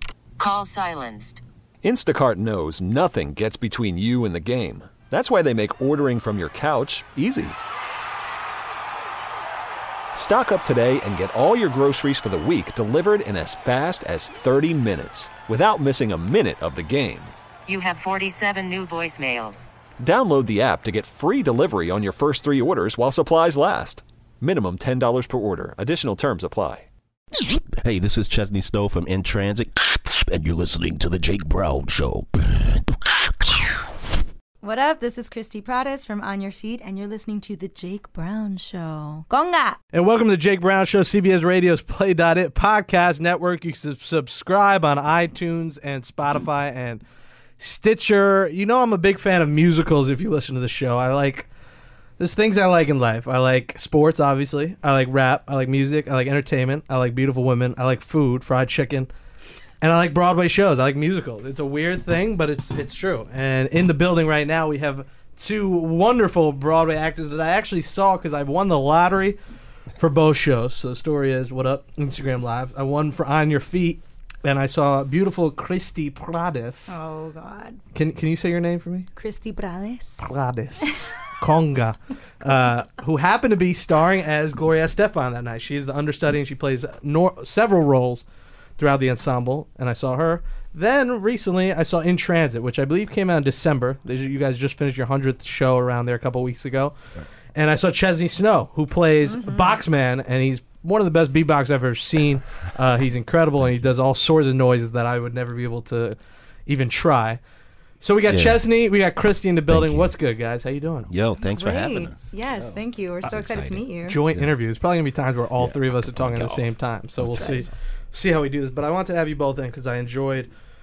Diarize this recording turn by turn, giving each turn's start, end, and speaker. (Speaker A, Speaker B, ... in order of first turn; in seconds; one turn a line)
Speaker A: 0.4-1.4
Speaker B: 1.8-7.6
Speaker B: 10.1-17.3
Speaker A: 17.7-19.7
Speaker B: 20.0-26.9
Speaker C: 27.4-34.1
Speaker D: 34.6-39.8
Speaker E: 39.9-47.0
Speaker E: 47.6-51.5
Speaker E: 52.2-59.1
Speaker E: 59.8-69.4
Speaker E: 70.0-77.0
Speaker D: 76.9-77.8
Speaker E: 77.9-79.1
Speaker D: 79.2-80.3
Speaker E: 80.3-88.2
Speaker E: 88.8-107.4
Speaker D: 99.3-99.8
Speaker C: 103.6-103.9
Speaker E: 108.0-111.1
Speaker C: 108.3-108.6
Speaker C: 109.7-110.2
Speaker C: 111.1-114.5
Speaker D: 111.5-114.2
Speaker E: 114.0-120.5
Speaker C: 115.6-117.7
Speaker D: 117.3-117.7